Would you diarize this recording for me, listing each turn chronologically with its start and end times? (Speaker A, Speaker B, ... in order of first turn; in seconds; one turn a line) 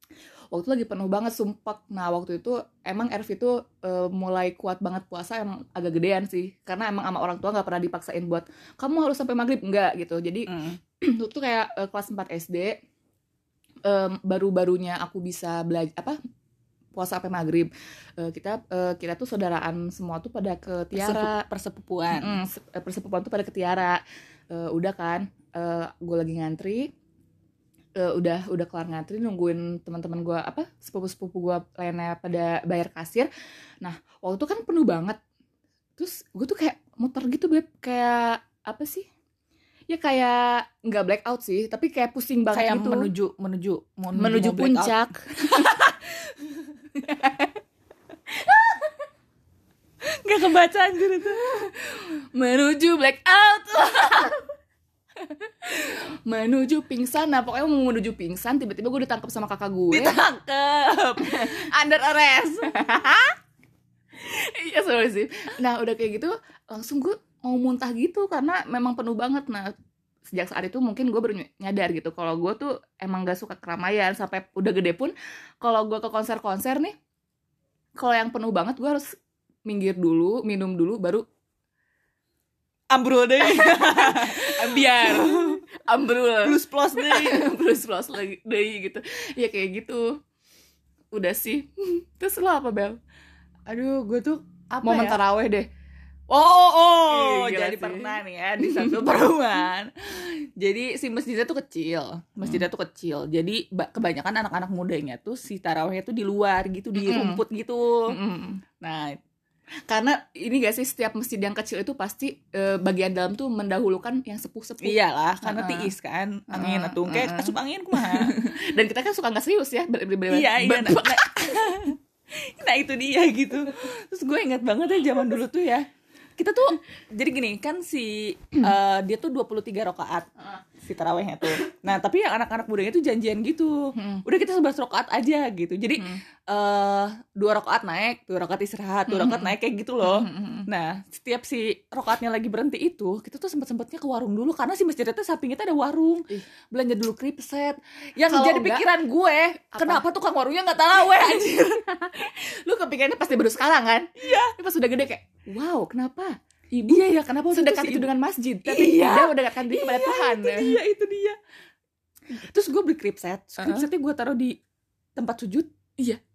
Speaker A: 0.5-12.8
Speaker B: 10.5-10.8
Speaker A: 13.8-16.2
Speaker A: 16.9-21.4
Speaker B: 20.9-22.4
Speaker A: 22.1-26.9
Speaker A: 27.9-33.3
Speaker A: 33.8-35.2
Speaker A: 36.0-39.1
Speaker A: 39.9-43.1
Speaker B: 42.5-45.9
Speaker A: 44.1-45.9
Speaker A: 46.9-47.5
Speaker A: 48.3-48.9
Speaker B: 50.0-51.4
Speaker A: 51.3-54.4
Speaker A: 55.2-60.2
Speaker B: 59.9-63.0
Speaker A: 61.2-61.6
Speaker A: 62.6-63.4
Speaker A: 64.2-69.7
Speaker A: 70.3-76.9
Speaker A: 78.0-79.1
Speaker A: 79.7-81.2
Speaker B: 82.9-85.6
Speaker A: 83.4-90.2
Speaker B: 86.4-87.5
Speaker A: 91.1-93.0
Speaker B: 93.7-95.2
Speaker A: 94.8-95.7
Speaker B: 96.3-108.2
Speaker A: 97.1-99.0
Speaker A: 106.9-107.4
Speaker A: 108.1-108.6
Speaker B: 108.8-109.2
Speaker A: 109.9-115.9
Speaker B: 114.8-118.6
Speaker A: 116.5-121.6
Speaker B: 120.3-151.8
Speaker A: 133.9-134.2
Speaker A: 139.1-140.7
Speaker A: 148.3-148.8
Speaker A: 149.7-150.0
Speaker A: 151.3-160.8
Speaker B: 154.2-154.5
Speaker B: 156.9-158.1
Speaker B: 158.6-161.4
Speaker B: 162.3-164.6
Speaker A: 163.6-163.8
Speaker B: 165.2-165.7